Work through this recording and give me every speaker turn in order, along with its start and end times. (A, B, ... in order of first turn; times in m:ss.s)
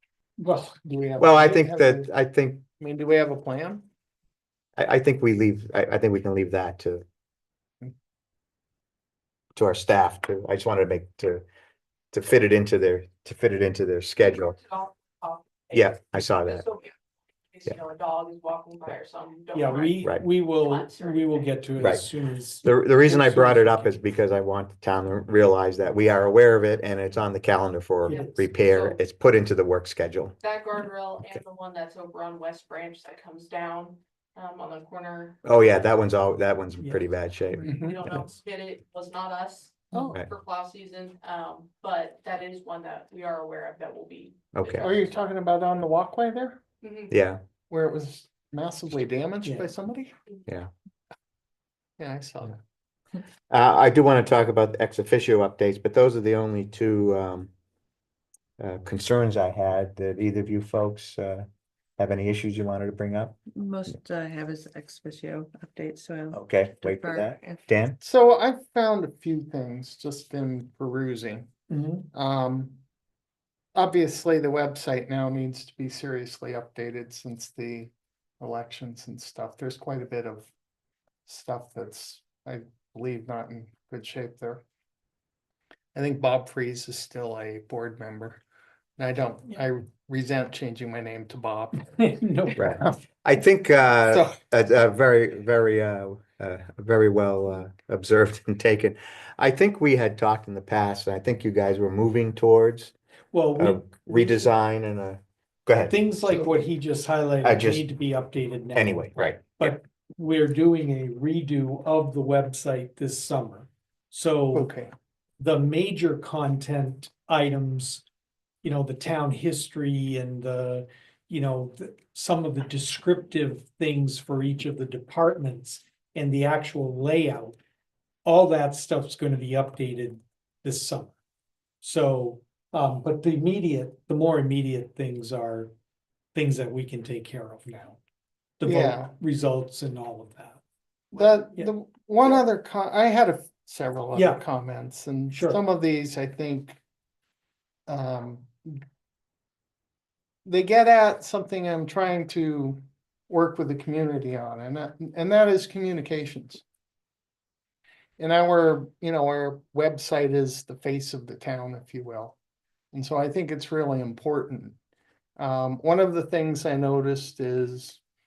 0:00.4-0:00.8 A
0:00.8-0:02.1 B
0:01.2-0:02.6 C
0:02.8-0:03.9 B
0:04.8-0:07.0 C
0:09.6-0:11.4 C
0:12.1-0:14.6 C
0:14.2-0:16.9 D
0:15.7-0:16.6 C
0:17.5-0:21.6 D
0:19.5-0:24.0 A
0:21.8-0:22.1 C
0:22.6-0:30.4 C
0:28.0-0:29.0 D
0:28.1-0:28.4 A
0:30.4-0:35.4 D
0:35.4-0:38.3 C
0:36.8-0:37.1 A
0:37.6-0:38.0 B
0:37.8-0:45.2 D
0:44.6-0:44.9 C
0:44.8-0:46.6 B
0:46.8-0:47.1 D
0:47.1-0:47.4 C
0:47.7-0:50.2 B
0:52.0-0:52.6 B
0:53.5-0:57.5 C
0:58.6-1:01.5 C
1:02.0-1:03.4 C
1:03.5-1:07.6 E
1:06.3-1:08.0 C
1:08.0-1:11.5 B
1:11.7-1:12.1 A
1:12.1-1:12.8 B
1:13.8-1:20.5 B
1:21.2-1:24.6 B
1:25.9-1:28.4 B
1:29.0-1:31.9 B
1:31.9-1:32.9 A
1:32.6-1:42.9 C
1:43.3-1:44.5 A
1:43.6-1:46.5 C
1:45.9-1:54.7 A
1:47.4-1:47.8 C
1:48.8-1:49.8 C
1:54.5-1:54.9 B
1:55.4-1:58.0 A
1:58.6-2:07.6 A
2:08.2-2:11.1 A
2:11.8-2:15.7 A
2:16.3-2:18.0 A
2:18.6-2:20.6 A
2:18.6-2:19.1 B
2:21.1-2:21.7 A
2:21.1-2:26.8 B
2:24.1-2:24.4 A
2:25.3-2:25.6 A
2:27.9-2:28.8 B
2:30.4-2:36.6 B
2:38.2-2:42.4 B
2:42.9-2:44.8 B
2:45.4-2:48.0 B